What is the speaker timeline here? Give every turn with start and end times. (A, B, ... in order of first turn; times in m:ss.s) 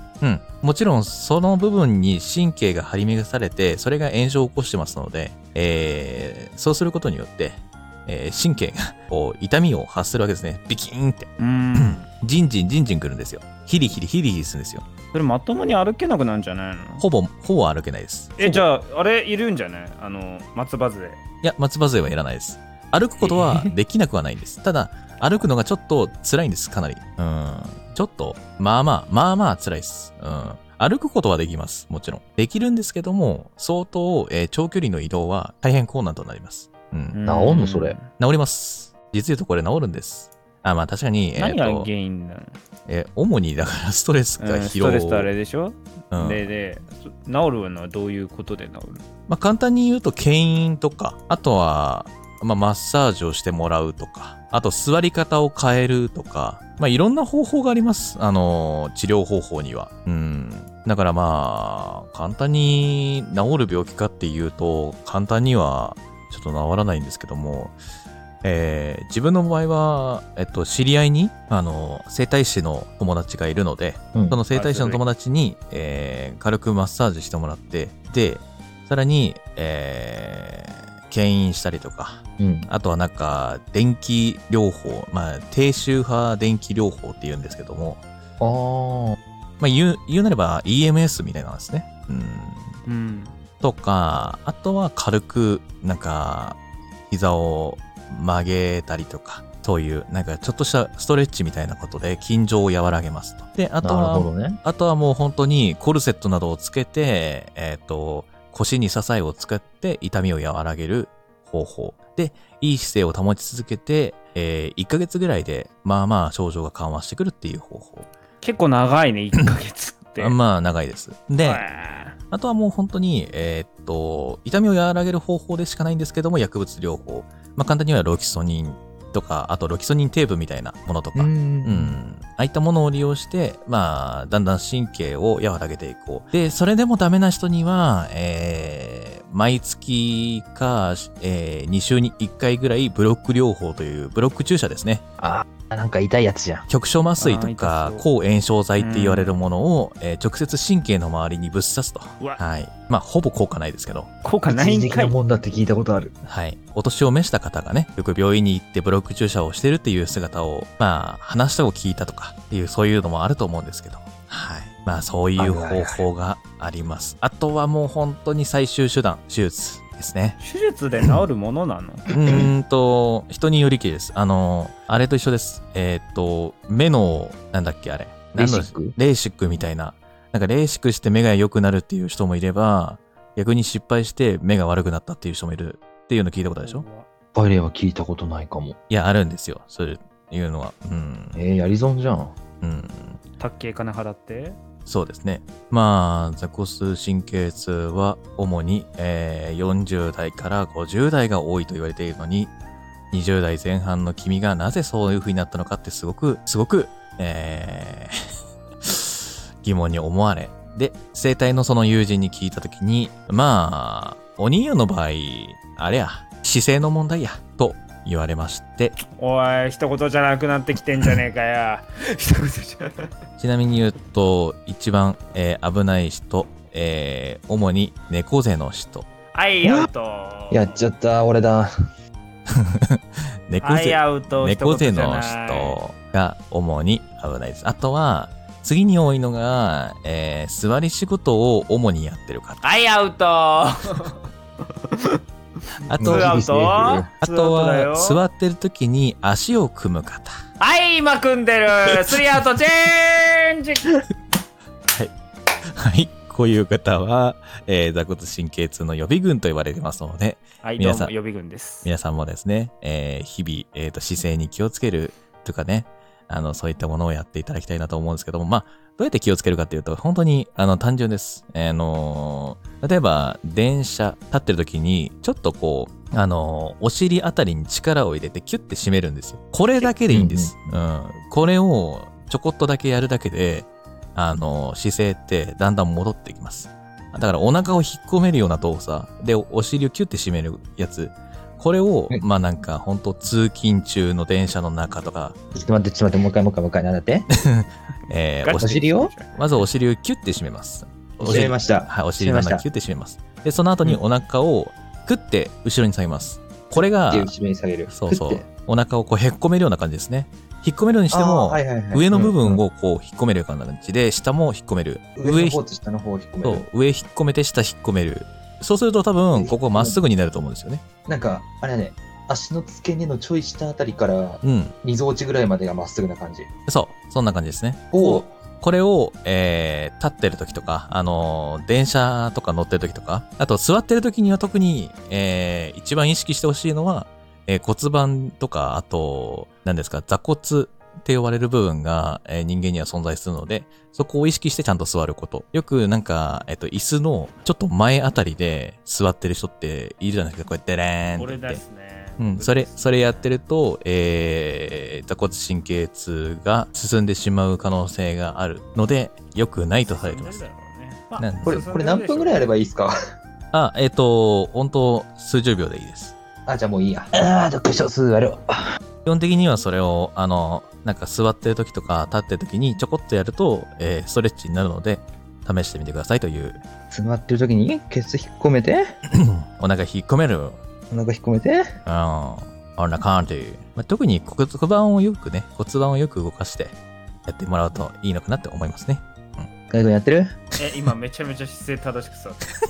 0:00.2-0:14.8 A
0:11.4-0:12.0 B
0:15.1-0:17.0 B
0:17.0-0:18.7 A
0:18.4-0:21.2 B
0:21.4-0:37.2 A
0:23.2-0:23.7 B
0:37.1-0:38.1 B
0:37.2-0:38.0 C
0:38.2-0:41.9 A
0:41.4-0:42.6 B
0:42.9-0:45.3 A
0:44.4-0:49.0 B
0:46.1-0:46.4 A
0:49.3-1:07.7 A
1:08.4-1:28.0 A
1:14.5-1:15.0 B
1:22.4-1:22.7 C
1:28.4-1:29.2 C
1:29.6-1:32.8 A
1:32.9-1:33.3 B
1:33.6-1:58.1 A
1:43.8-1:44.6 C
1:58.4-2:00.4 B
2:00.2-2:01.6 A
2:01.4-2:02.2 B
2:02.3-2:25.0 A
2:11.1-2:12.0 C
2:25.2-2:26.6 C
2:26.7-2:34.1 A
2:27.2-2:28.0 B
2:28.8-2:29.3 B
2:34.2-2:35.1 B
2:34.5-2:36.1 C
2:36.2-2:50.4 A
2:45.4-2:46.0 C
2:50.4-2:52.0 B
2:52.1-3:06.8 A
2:58.4-2:59.0 C
3:06.6-3:07.1 B
3:07.3-3:08.8 C
3:08.9-3:11.4 A
3:11.3-3:12.3 C
3:12.6-3:13.2 A
3:13.4-3:14.6 B
3:14.8-3:22.5 A
3:23.1-3:28.2 A
3:28.8-3:39.0 A
3:39.1-3:43.1 B
3:43.4-3:49.1 A
3:49.3-3:50.8 B
3:49.6-3:49.9 C
3:50.5-3:51.7 C
3:52.5-4:02.6 A
3:53.6-3:55.8 B
4:02.6-4:04.2 B
4:04.9-4:05.2 B
4:05.8-4:08.2 B
4:05.9-4:06.3 A
4:06.0-4:07.1 C
4:07.2-4:10.4 A
4:10.6-4:13.9 B
4:15.7-4:21.1 A
4:20.6-4:21.9 B
4:21.8-4:55.4 A
4:40.1-4:40.7 C
4:55.6-4:57.3 C
4:57.3-5:07.3 A
4:58.4-4:59.3 B
4:58.6-4:59.1 C
5:01.2-5:02.6 C
5:06.8-5:08.4 C
5:07.9-5:15.6 A
5:11.1-5:12.6 C
5:15.2-5:16.7 C
5:16.4-5:20.8 A
5:19.3-5:20.0 C
5:21.0-5:26.5 C
5:24.4-5:24.7 A
5:26.7-5:51.6 A
5:27.9-5:28.3 C
5:51.2-5:53.3 B
5:52.2-6:00.4 A
5:59.9-6:02.4 B
6:01.2-6:01.6 A
6:01.4-6:02.9 C
6:03.5-6:06.1 A
6:06.5-6:08.7 C
6:09.0-6:16.6 A
6:16.9-6:18.9 C
6:19.1-6:20.6 A
6:20.9-6:21.7 C
6:21.9-6:26.7 A
6:27.3-6:29.5 A
6:29.7-6:30.3 C
6:30.6-6:32.4 B